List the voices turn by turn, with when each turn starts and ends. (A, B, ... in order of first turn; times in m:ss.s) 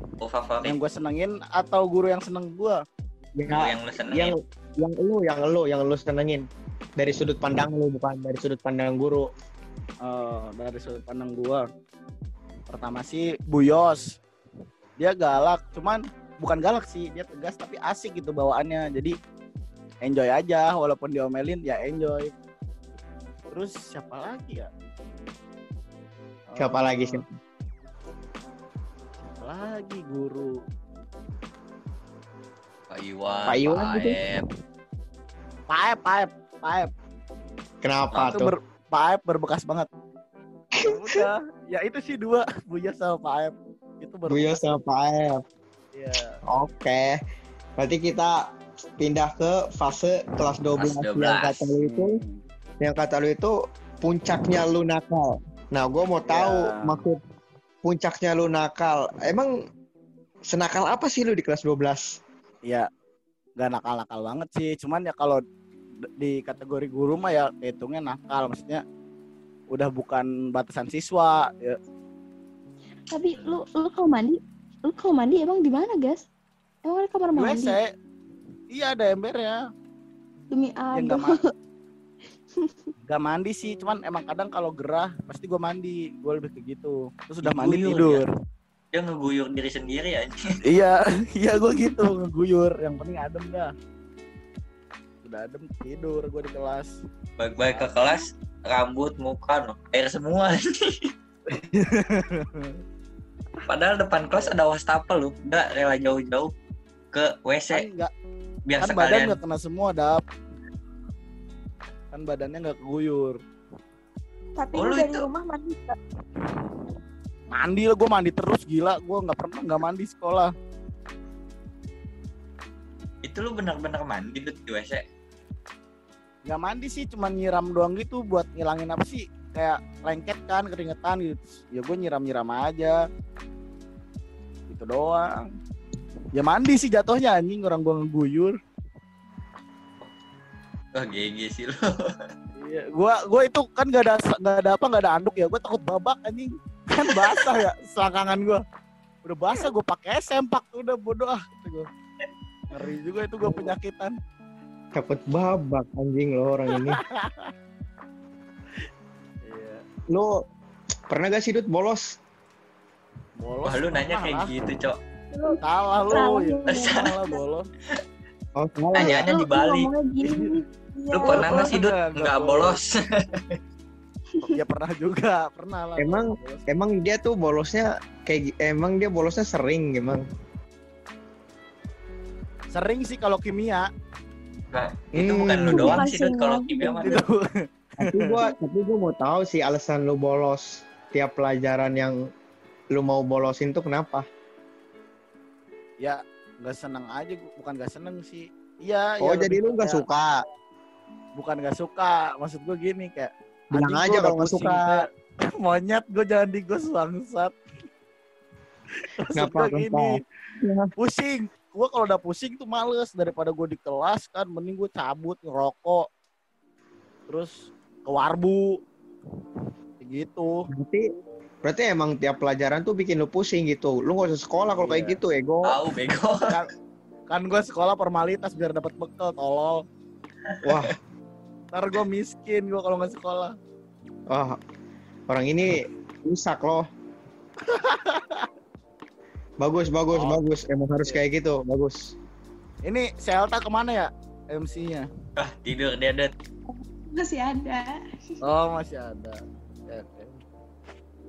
0:00.2-0:00.8 A
0:00.6-0:02.8 B
0:03.4-0:06.4 C
0:03.5-0:04.4 A
0:07.0-0:09.3 C
0:10.0-0:11.6 B
0:12.7-0:14.2 B
0:15.0-0:19.1 B
0:20.0-0:22.3 B
0:23.5-0:24.7 B
0:26.5-0:27.2 B
0:26.6-0:27.3 C
0:29.2-0:30.6 B
0:32.9-0:34.4 A
0:33.5-0:34.2 C
0:35.7-0:36.9 B
0:37.8-0:38.5 C
0:38.3-0:39.9 B
0:40.8-0:44.6 B
0:40.8-0:41.2 C
0:44.3-0:45.4 C
0:45.9-0:46.4 B
0:46.5-0:47.2 C
0:47.8-0:52.2 C
0:50.8-0:51.7 A
0:51.8-0:52.4 B
0:52.8-0:57.2 C
0:56.3-0:57.0 B
0:57.8-0:59.5 C
1:00.5-1:02.2 C
1:03.6-1:05.4 B
1:06.2-1:08.8 B
1:09.7-1:11.8 B
1:13.1-1:16.2 D
1:13.4-1:13.6 A
1:16.8-1:17.8 D
1:17.3-1:17.9 B
1:18.7-1:19.6 B
1:20.5-1:21.5 D
1:20.9-1:21.3 B
1:23.0-1:28.2 B
1:27.4-1:28.2 A
1:28.9-1:30.4 A
1:30.6-1:33.7 B
1:35.2-1:36.9 B
1:37.4-1:41.1 A
1:37.7-1:38.1 B
1:41.5-1:42.8 B
1:43.7-1:46.5 A
1:47.1-1:47.8 A
1:47.7-1:48.1 B
1:48.7-1:49.4 A
1:48.8-1:50.2 B
1:52.1-1:53.4 B
1:54.6-1:56.0 E
1:54.7-1:55.3 A
1:57.5-2:00.5 B
2:03.2-2:05.0 A
2:06.4-2:13.0 B
2:14.7-2:15.5 B
2:16.3-2:18.6 B
2:20.9-2:22.2 A
2:22.6-2:28.6 B
2:29.2-2:31.9 B
2:32.7-2:34.1 B
2:33.4-2:33.7 C
2:34.9-2:37.0 C
2:36.9-2:37.5 B
2:39.4-2:39.8 B
2:40.1-2:40.4 C
2:41.1-2:42.2 C
2:43.4-2:44.5 B
2:43.6-2:45.0 A
2:45.3-2:47.4 E
2:45.6-2:47.7 B
2:46.1-2:46.7 D
2:46.7-2:47.1 A
2:48.6-2:49.2 C
2:48.9-2:49.9 A
2:49.0-2:50.6 D
2:51.0-2:51.7 E
2:51.1-2:53.6 A
2:51.2-2:52.8 B
2:54.4-2:56.7 B
2:56.0-3:00.2 C
3:02.7-3:03.9 B
3:04.7-3:07.2 A
3:05.1-3:06.0 C
3:05.7-3:07.1 D
3:06.1-3:07.0 E
3:07.0-3:08.4 B
3:08.0-3:12.2 C
3:12.9-3:14.2 C
3:16.0-3:20.0 B
3:19.2-3:20.3 C
3:21.4-3:27.5 B
3:23.8-3:25.1 C
3:29.0-3:30.2 B
3:29.3-3:30.9 C
3:31.0-3:36.0 B
3:37.3-3:38.8 B
3:40.0-3:40.6 B
3:40.7-3:41.0 C
3:41.6-3:45.8 C
3:44.8-3:45.2 B
3:45.6-3:46.6 A
3:47.3-3:49.8 B
3:50.5-3:50.9 A
3:50.6-3:51.0 C
3:51.7-3:53.5 B
3:54.3-3:54.6 C
3:55.3-3:56.8 C
3:57.7-3:58.5 B
3:59.6-4:02.1 C
4:00.1-4:00.4 B
4:02.8-4:05.1 B
4:05.4-4:06.3 A
4:06.7-4:08.3 D
4:08.4-4:10.4 B